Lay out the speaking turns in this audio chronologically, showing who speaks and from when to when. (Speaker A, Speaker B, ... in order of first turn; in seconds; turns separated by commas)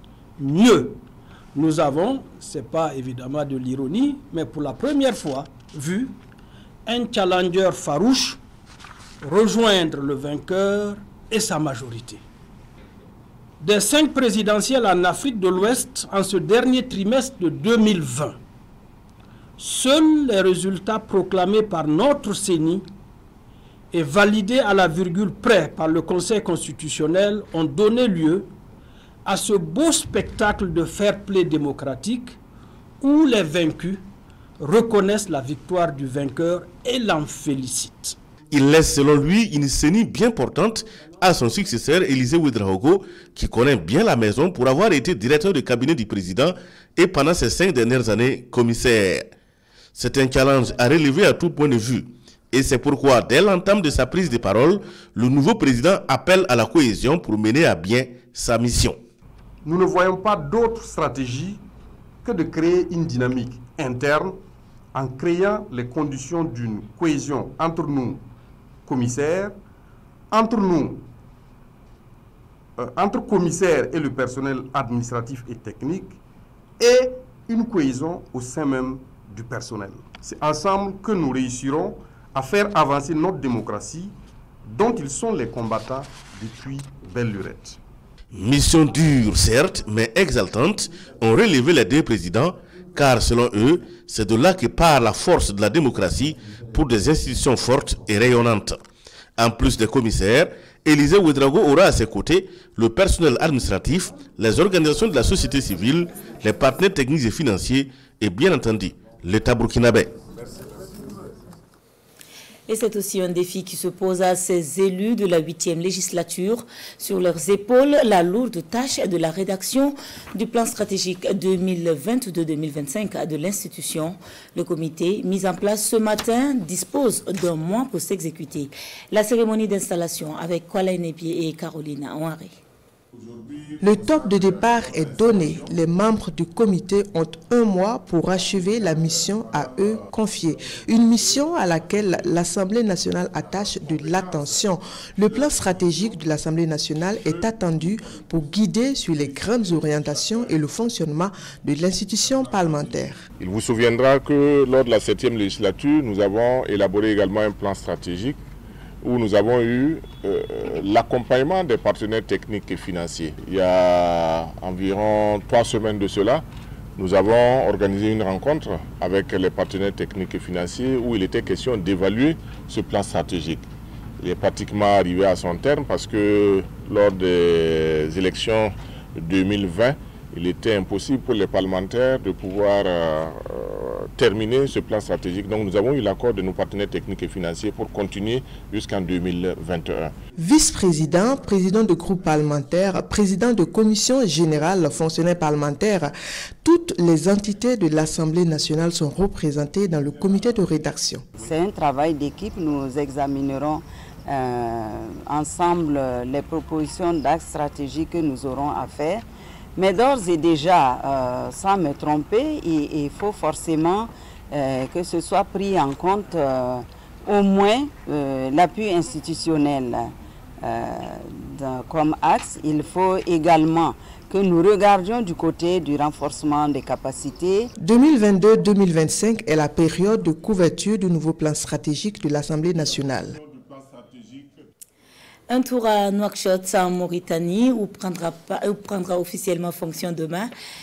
Speaker A: 0.4-1.0, Speaker A: 1.5-6.2, Speaker A: 6.8-8.4, Speaker A: 9.2-12.2, Speaker A: 13.6-18.4, Speaker A: 19.6-22.9, Speaker A: 23.9-28.5, Speaker A: 29.2-32.4, Speaker A: 33.0-34.0, Speaker A: 34.6-38.1, Speaker B: 38.5-49.3, Speaker B: 49.9-59.0, Speaker C: 59.6-61.6, Speaker C: 62.2-64.4, Speaker C: 64.9-68.2, Speaker C: 68.9-69.5, Speaker C: 70.3-70.9, Speaker C: 72.8-76.1, Speaker C: 76.8-84.1, Speaker C: 84.7-87.7, Speaker B: 88.3-98.8, Speaker B: 99.4-110.1, Speaker D: 112.7-132.5, Speaker E: 133.8-153.2, Speaker F: 153.4-158.4, Speaker F: 159.0-166.4, Speaker F: 167.0-173.7, Speaker F: 174.2-190.1, Speaker E: 190.4-201.2, Speaker G: 201.4-209.2, Speaker G: 209.8-227.7, Speaker E: 227.8-233.4, Speaker D: 235.5-240.5